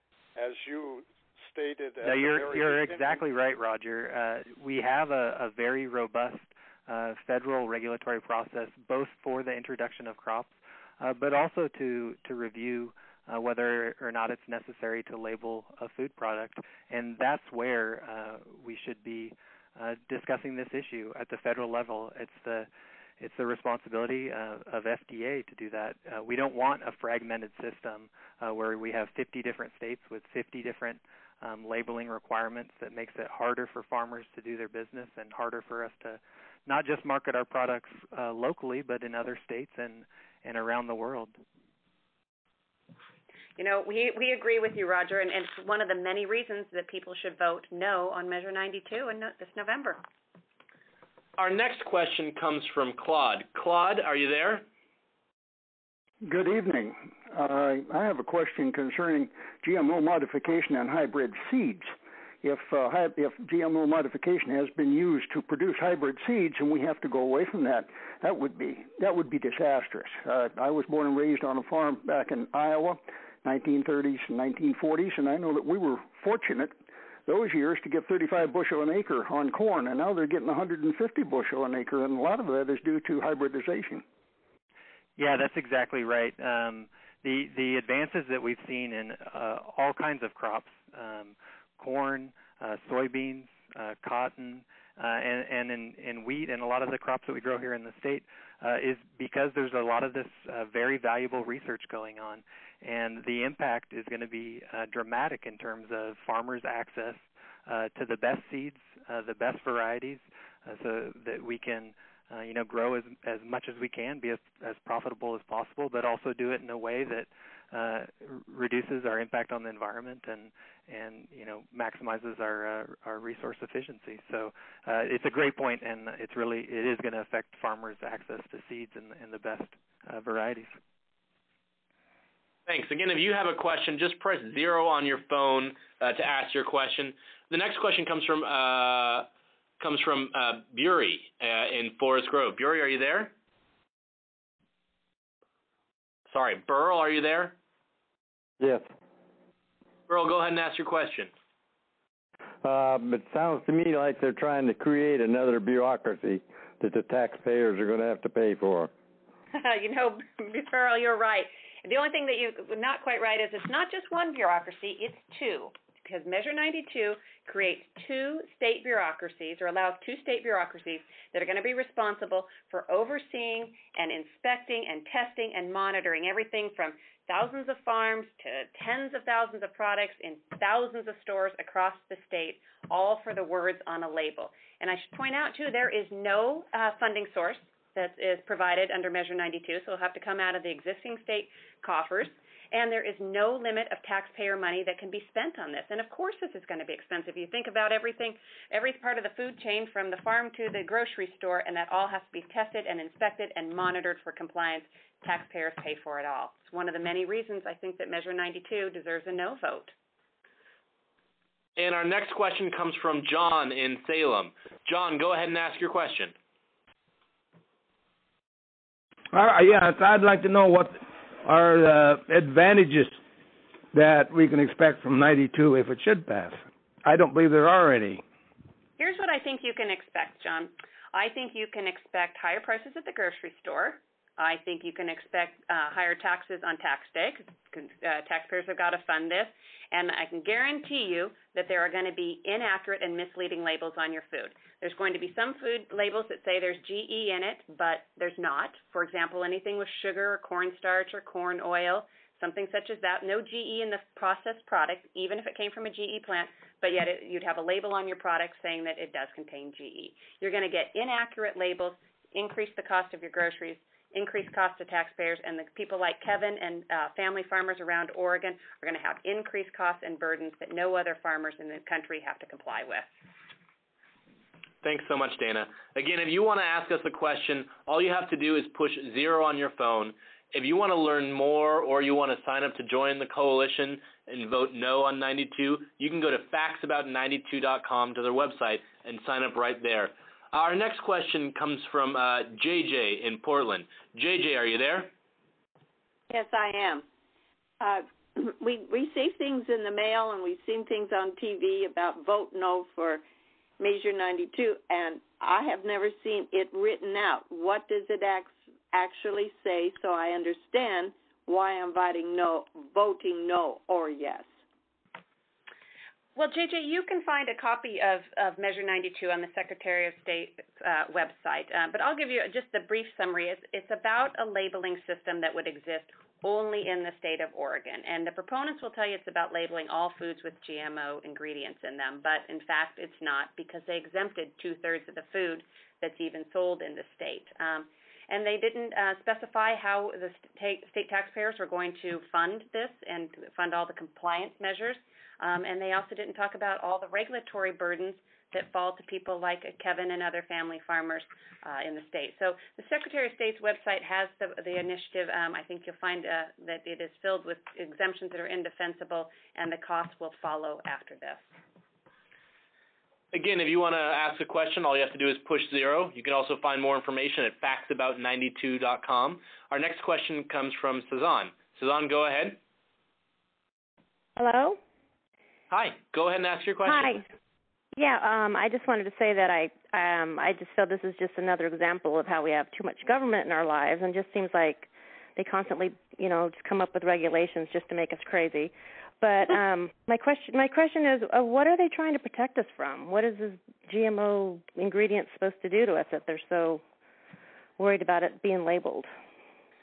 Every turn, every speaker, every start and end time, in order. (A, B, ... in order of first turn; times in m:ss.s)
0:00.4-0:03.2 A
0:02.0-0:22.7 B
0:23.2-0:41.4 B
0:43.6-0:50.0 C
0:51.4-0:54.6 D
0:56.2-1:16.7 E
1:17.3-1:24.0 E
1:25.2-2:10.8 B
2:12.7-2:19.3 D
2:19.8-2:23.3 D
2:26.3-2:27.6 D
2:28.6-2:28.9 F
2:30.1-2:31.3 D
2:32.6-2:38.9 F
2:39.5-3:29.9 C
3:31.8-3:36.3 D
3:39.3-3:43.2 G
3:43.9-3:48.2 G
3:49.0-4:33.1 C
4:34.8-4:55.1 D
4:56.3-4:57.0 H
4:57.8-5:03.2 H
5:03.8-5:14.5 H
5:16.4-6:01.5 C
6:03.3-6:12.6 D
6:14.4-6:14.8 I
6:15.7-6:17.2 D
6:16.8-6:17.2 I
6:17.9-6:36.8 I
6:37.8-6:39.1 I